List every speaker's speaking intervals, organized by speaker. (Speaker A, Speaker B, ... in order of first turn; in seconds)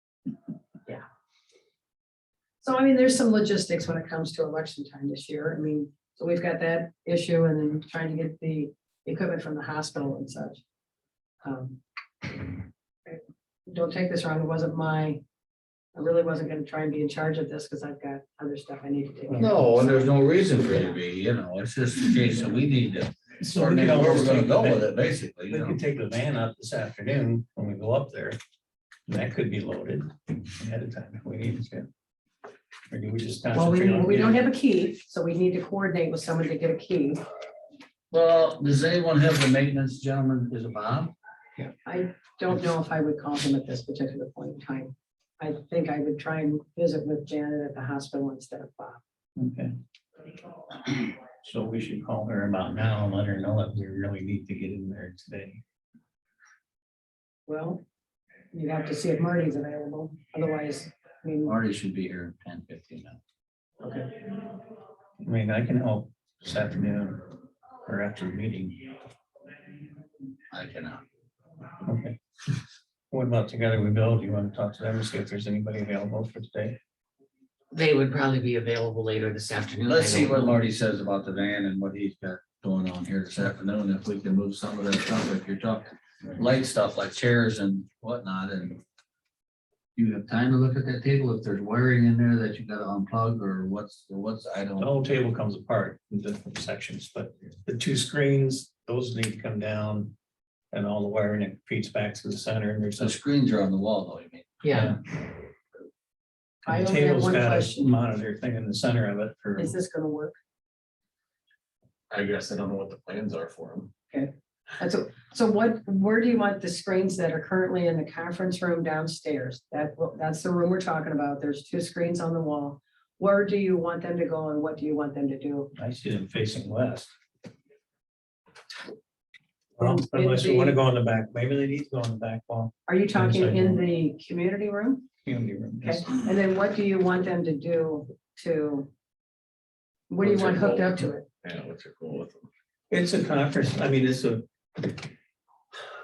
Speaker A: 2.6-10.6, 11.4-15.2, 15.9-20.0, 33.5-37.2, 41.8-49.0, 57.5-57.8, 58.5-61.5, 63.8-64.2, 106.7-107.9, 109.6-110.3, 114.1-125.7, 129.8-130.8, 132.9-135.0, 135.8-138.9, 140.1-141.2
Speaker B: 19.4-25.8, 38.1-41.1, 61.4-63.2, 70.5-71.0, 79.8-88.8, 90.0-94.9, 103.0-104.6
Speaker C: 23.4-24.9, 25.5-28.4, 29.1-31.9, 32.9-34.5, 49.4-49.7, 51.4-55.6, 65.2-67.3, 67.8-68.8, 71.8-72.2, 73.1-76.8, 94.8-100.1, 100.7-103.2, 104.7-105.0, 106.6-109.7, 125.7-127.1, 129.8-133.8, 135.2-136.2, 142.9-144.4
Speaker D: 77.7-80.6, 104.6-105.0
Speaker E: 112.1-113.9, 140.2-142.5